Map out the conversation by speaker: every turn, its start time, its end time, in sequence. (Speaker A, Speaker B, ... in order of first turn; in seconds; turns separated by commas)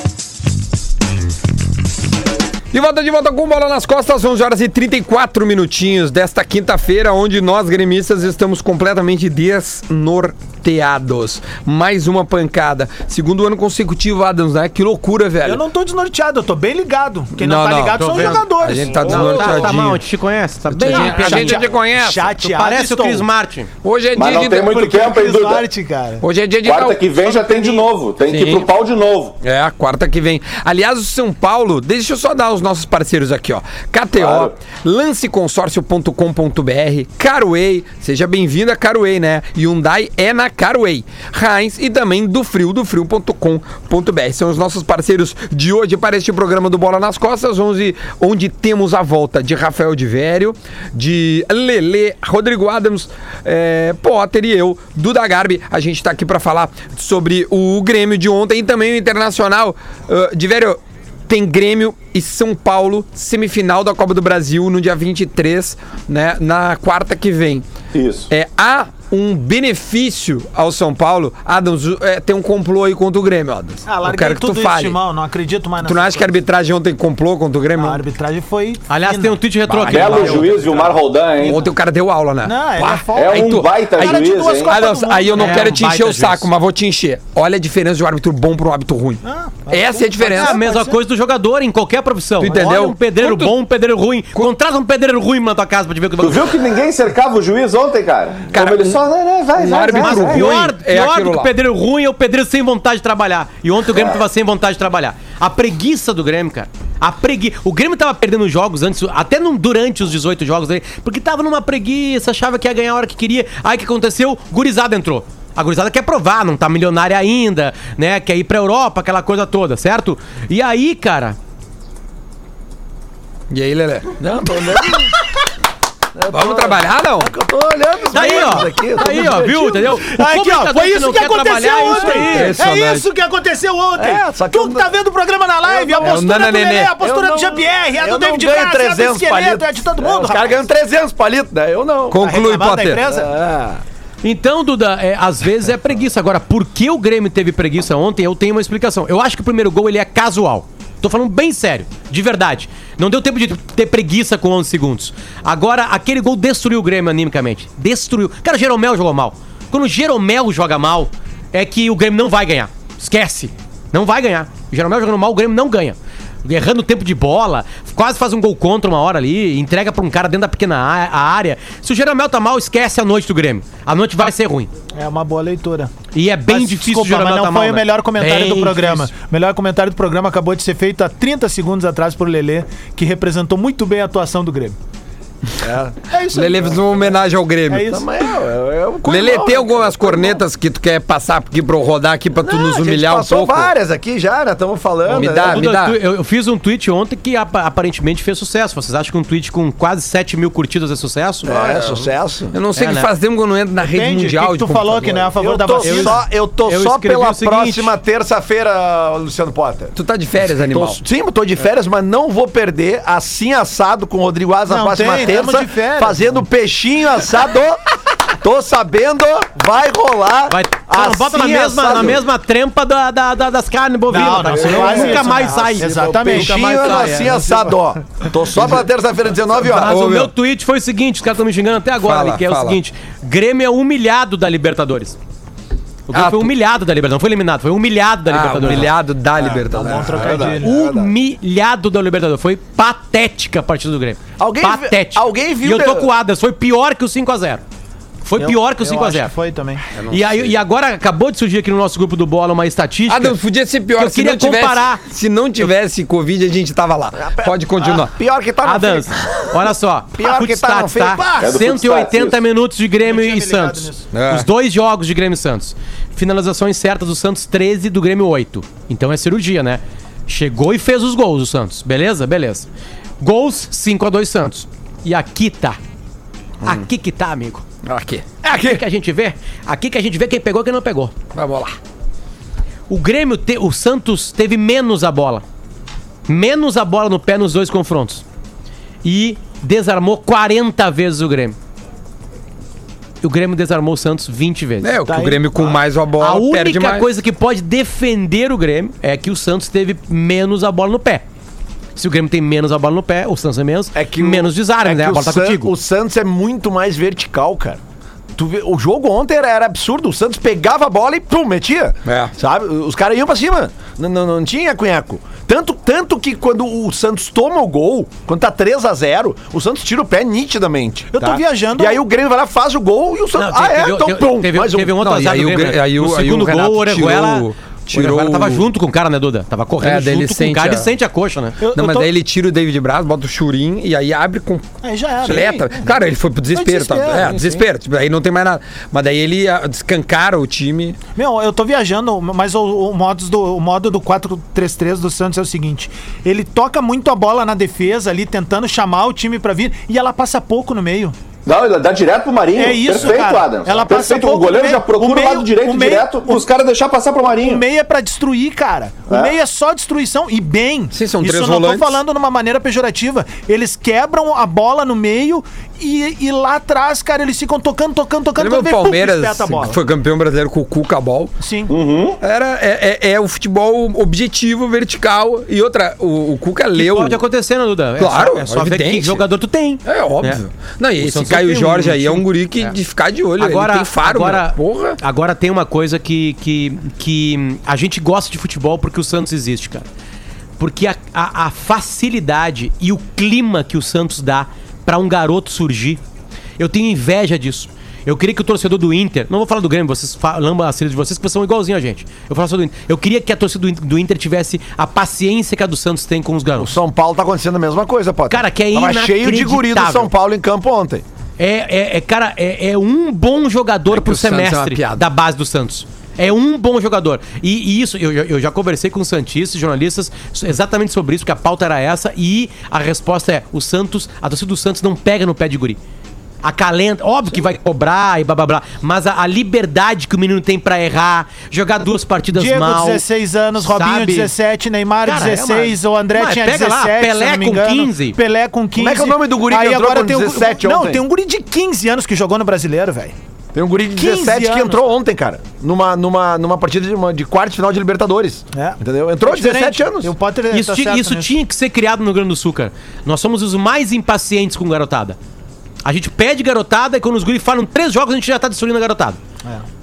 Speaker A: 2.7-15.6, Speaker B: 15.4-19.8, Speaker A: 17.4-20.0, Speaker C: 17.9-21.6, Speaker A: 20.7-22.3, Speaker B: 20.8-23.3, Speaker C: 22.4-23.7, Speaker A: 23.8-24.7, Speaker D: 24.1-25.7, Speaker B: 24.3-26.2, Speaker A: 26.2-27.1, Speaker D: 26.6-29.4, Speaker B: 27.2-27.9, Speaker A: 28.2-28.7, Speaker A: 29.4-67.6, Speaker D: 34.1-34.5, Speaker D: 67.9-68.3, Speaker A: 68.3-75.0, Speaker B: 73.8-76.3, Speaker A: 75.8-78.0, Speaker B: 77.7-79.4, Speaker C: 78.9-80.9, Speaker A: 79.7-80.6, Speaker D: 79.8-81.6, Speaker A: 81.4-90.6, Speaker B: 82.4-85.8, Speaker D: 83.1-84.8, Speaker C: 85.3-86.5, Speaker B: 89.2-91.0, Speaker C: 90.3-96.5, Speaker A: 92.4-93.5, Speaker D: 96.2-100.5, Speaker A: 98.5-99.0, Speaker A: 99.5-101.5, Speaker C: 99.9-121.4, Speaker A: 123.5-124.2, Speaker E: 124.2-125.1, Speaker E: 126.1-130.0, Speaker A: 126.3-127.3, Speaker C: 128.1-132.6, Speaker B: 129.9-140.6, Speaker E: 131.8-132.3, Speaker A: 132.3-133.1, Speaker E: 133.9-134.9, Speaker E: 135.6-136.4, Speaker A: 136.0-136.9, Speaker E: 137.0-142.3, Speaker A: 142.1-143.0, Speaker B: 142.1-143.3, Speaker E: 143.0-143.8, Speaker C: 144.2-174.7, Speaker B: 174.9-175.9, Speaker C: 176.1-179.1, Speaker B: 176.5-184.8, Speaker E: 185.6-186.0, Speaker B: 186.1-187.0, Speaker A: 186.3-187.9, Speaker B: 187.7-188.0, Speaker E: 187.8-190.4, Speaker A: 189.1-193.7, Speaker E: 192.4-195.7, Speaker C: 195.1-201.5, Speaker A: 195.1-196.0, Speaker E: 201.4-202.6, Speaker A: 201.5-205.3, Speaker C: 202.7-203.1, Speaker B: 203.8-206.2, Speaker E: 205.1-209.9, Speaker C: 205.8-207.9, Speaker A: 209.9-211.0, Speaker E: 210.6-222.2, Speaker B: 214.7-216.3, Speaker C: 220.5-227.3, Speaker B: 224.1-228.3, Speaker E: 224.2-230.0, Speaker C: 229.6-235.2, Speaker A: 229.7-230.3, Speaker A: 232.0-232.8, Speaker C: 236.1-238.9, Speaker A: 236.1-236.5, Speaker A: 238.3-240.4, Speaker E: 239.4-241.1, Speaker B: 239.7-240.7, Speaker C: 240.6-247.6, Speaker E: 244.4-246.1, Speaker C: 248.2-249.3, Speaker B: 248.4-249.8, Speaker A: 249.9-250.5, Speaker C: 250.1-253.4, Speaker A: 253.1-258.1, Speaker C: 253.9-255.0, Speaker E: 257.1-259.1, Speaker C: 258.6-272.7, Speaker E: 260.1-261.3, Speaker B: 261.1-261.5, Speaker D: 261.4-262.4, Speaker B: 263.0-264.1, Speaker A: 264.1-264.5, Speaker C: 273.2-275.8, Speaker C: 276.6-277.6, Speaker A: 277.8-278.3, Speaker E: 278.4-278.8, Speaker C: 278.5-281.1, Speaker A: 281.3-281.8, Speaker C: 282.9-285.4, Speaker C: 286.3-288.2, Speaker C: 289.0-291.6, Speaker C: 293.2-295.1, Speaker A: 294.8-297.1, Speaker B: 295.1-295.4, Speaker C: 296.2-301.2, Speaker C: 301.9-305.7, Speaker E: 303.9-307.8, Speaker E: 308.4-325.0, Speaker A: 312.1-312.3, Speaker B: 321.1-322.0, Speaker C: 323.3-331.6, Speaker A: 325.0-328.7, Speaker A: 329.8-330.9, Speaker B: 331.6-332.1, Speaker A: 331.7-334.7, Speaker B: 334.8-336.0, Speaker A: 335.2-341.0, Speaker B: 336.5-337.6, Speaker B: 341.1-351.1, Speaker D: 351.4-357.6, Speaker B: 352.6-356.5, Speaker B: 357.4-369.8, Speaker D: 359.1-359.3, Speaker A: 360.9-362.0, Speaker A: 368.4-371.3, Speaker B: 371.4-371.7, Speaker D: 371.7-372.2, Speaker A: 372.2-377.2, Speaker C: 376.7-380.4, Speaker A: 378.0-379.2, Speaker A: 379.8-385.0, Speaker C: 381.0-382.7, Speaker C: 383.4-389.9, Speaker C: 390.6-396.0, Speaker C: 396.6-406.8, Speaker E: 406.6-411.0, Speaker C: 408.3-410.1, Speaker C: 411.4-425.8, Speaker A: 413.9-415.0, Speaker C: 426.4-433.0, Speaker B: 432.3-443.1, Speaker C: 433.6-434.3, Speaker C: 435.0-438.2, Speaker E: 438.8-441.0, Speaker E: 443.5-450.1, Speaker B: 443.9-444.8, Speaker B: 448.5-451.3, Speaker C: 450.5-455.2, Speaker C: 455.8-459.2